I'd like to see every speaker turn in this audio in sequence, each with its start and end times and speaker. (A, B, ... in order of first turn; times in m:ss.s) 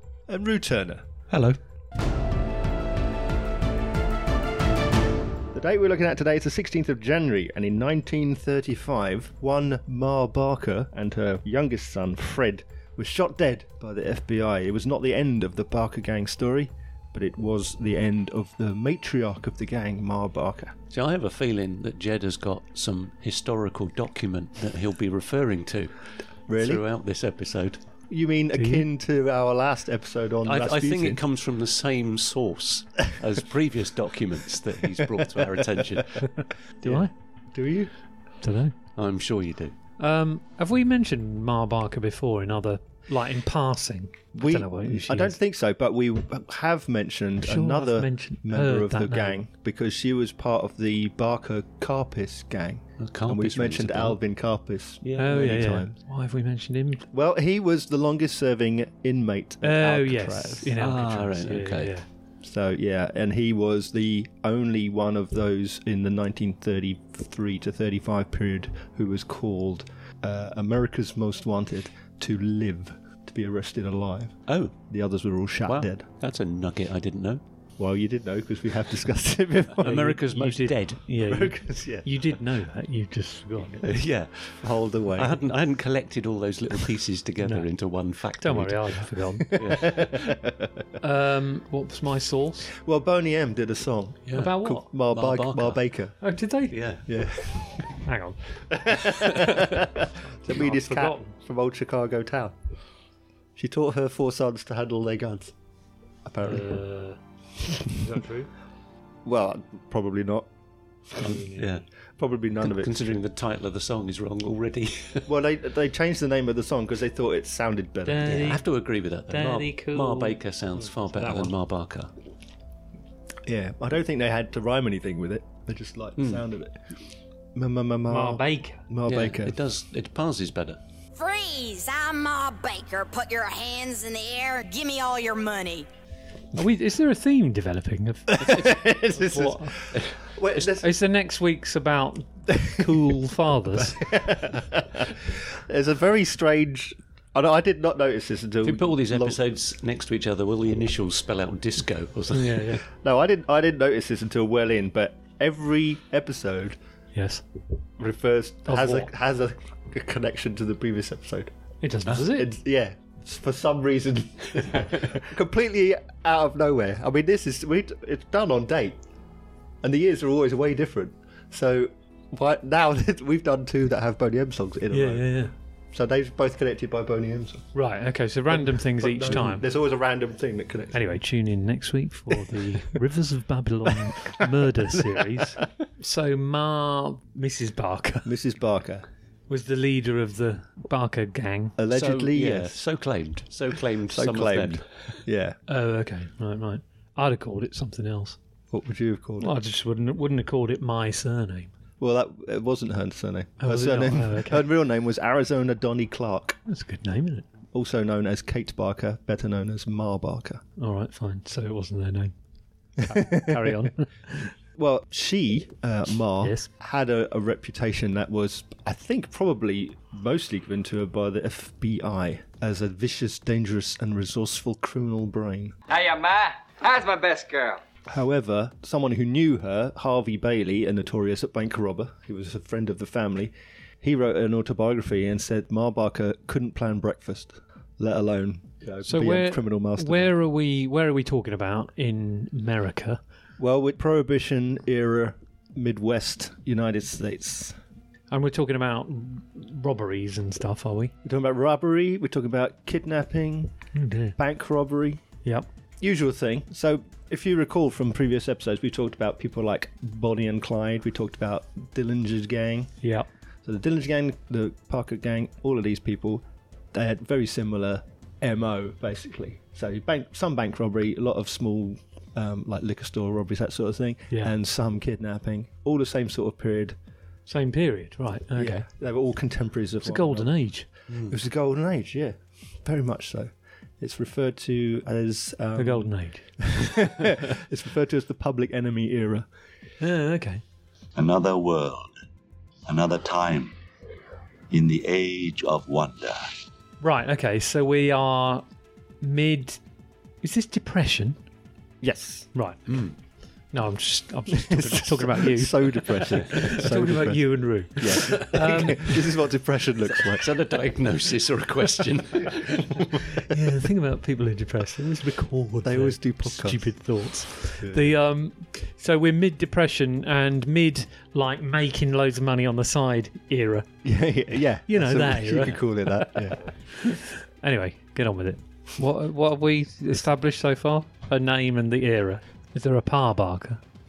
0:00.3-0:01.1 A
0:05.5-0:20.7 A
0:20.9-0:27.8 B
0:26.5-0:26.8 A
0:28.1-0:31.2 A
0:28.6-0:28.8 C
0:30.4-0:36.3 B
0:36.8-0:37.9 A
0:36.8-0:37.1 C
0:38.4-0:38.7 C
0:39.0-0:39.7 B
0:40.0-0:45.3 C
0:44.3-0:55.9 A
0:47.4-0:49.4 C
0:53.0-0:54.2 B
0:55.0-0:55.3 B
0:55.2-0:57.0 C
0:57.1-1:00.7 A
0:59.6-1:02.0 C
1:00.8-1:01.9 B
1:02.4-1:16.0 A
1:14.5-1:14.7 B
1:15.7-1:17.4 B
1:17.8-1:19.9 A
1:19.8-1:21.0 B
1:19.8-1:23.8 C
1:21.3-1:22.2 A
1:23.8-1:25.4 A
1:23.8-1:24.6 B
1:25.1-1:29.0 B
1:28.4-1:29.5 C
1:29.5-1:30.3 B
1:29.5-1:30.7 A
1:31.0-1:32.7 C
1:32.7-1:36.2 A
1:34.3-1:34.5 B
1:34.4-1:34.9 C
1:35.0-1:35.8 B
1:36.2-1:36.8 C
1:36.7-1:37.0 B
1:37.0-1:37.8 A
1:38.0-1:38.4 C
1:38.7-1:42.6 A
1:40.3-1:41.3 C
1:43.6-1:45.5 A
1:46.2-1:46.8 A
1:46.4-1:47.2 C
1:47.9-1:48.5 C
1:49.2-1:50.5 A
1:51.2-1:51.7 C
1:51.2-1:51.8 B
1:52.2-1:52.9 A
1:52.6-1:55.3 B
1:55.2-1:58.3 A
1:58.0-1:58.6 C
1:58.2-2:02.1 B
1:59.3-2:00.4 C
2:01.1-2:01.5 C
2:03.4-2:06.8 A
2:06.2-2:06.4 B
2:07.5-2:09.6 A
2:08.1-2:08.8 C
2:09.0-2:10.8 B
2:11.1-2:15.9 D
2:16.5-2:18.5 C
2:18.3-2:20.9 A
2:18.4-2:18.9 B
2:19.1-2:19.8 C
2:19.9-2:20.7 B
2:20.8-2:24.0 C
2:22.6-2:22.9 A
2:23.7-2:29.4 A
2:28.6-2:32.8 B
2:32.3-2:32.8 C
2:32.9-2:36.8 A
2:37.1-2:37.4 C
2:38.0-2:41.5 A
2:38.7-2:39.1 C
2:41.8-2:42.5 C
2:42.3-2:49.0 A
2:49.8-2:57.7 A
2:54.9-2:55.5 C
2:57.7-2:59.6 C
2:58.5-3:01.0 A
3:00.9-3:08.3 C
3:08.2-3:09.1 A
3:09.5-3:11.8 C
3:11.8-3:12.8 A
3:11.9-3:15.2 B
3:14.1-3:15.6 A
3:15.7-3:18.4 C
3:18.7-3:19.5 A
3:19.4-3:21.7 C
3:22.0-3:26.6 A
3:23.6-3:24.7 C
3:26.7-3:27.5 C
3:27.7-3:30.6 A
3:30.8-3:32.3 C
3:33.0-3:34.5 C
3:33.1-3:33.7 A
3:34.7-3:45.8 A
3:36.4-3:36.7 C
3:45.9-3:47.8 E
3:48.1-4:00.3 A
3:59.0-4:03.2 C
4:03.6-4:07.8 A
4:08.3-4:11.1 C
4:11.2-4:13.7 A
4:13.9-4:14.4 C
4:14.4-4:15.2 A
4:16.0-4:22.9 A
4:23.0-4:23.3 C
4:23.6-4:37.0 A
4:37.5-4:38.8 C
4:38.6-4:40.5 A
4:40.0-4:40.9 C
4:41.1-4:41.4 B
4:41.2-4:49.5 A
4:45.8-4:46.4 C
4:50.0-4:50.6 C
4:51.2-4:52.1 F
4:52.9-4:53.7 F
4:54.7-4:56.5 F
4:57.0-4:58.6 C
4:59.2-4:59.8 C
5:00.4-5:01.4 C
5:02.0-5:02.5 A
5:02.5-5:02.8 C
5:02.9-5:03.1 B
5:03.7-5:09.1 C
5:04.5-5:10.5 A
5:10.1-5:13.1 B
5:13.5-5:23.9 C
5:15.8-5:17.1 A
5:17.8-5:18.1 A
5:24.0-5:26.6 A
5:24.9-5:33.8 C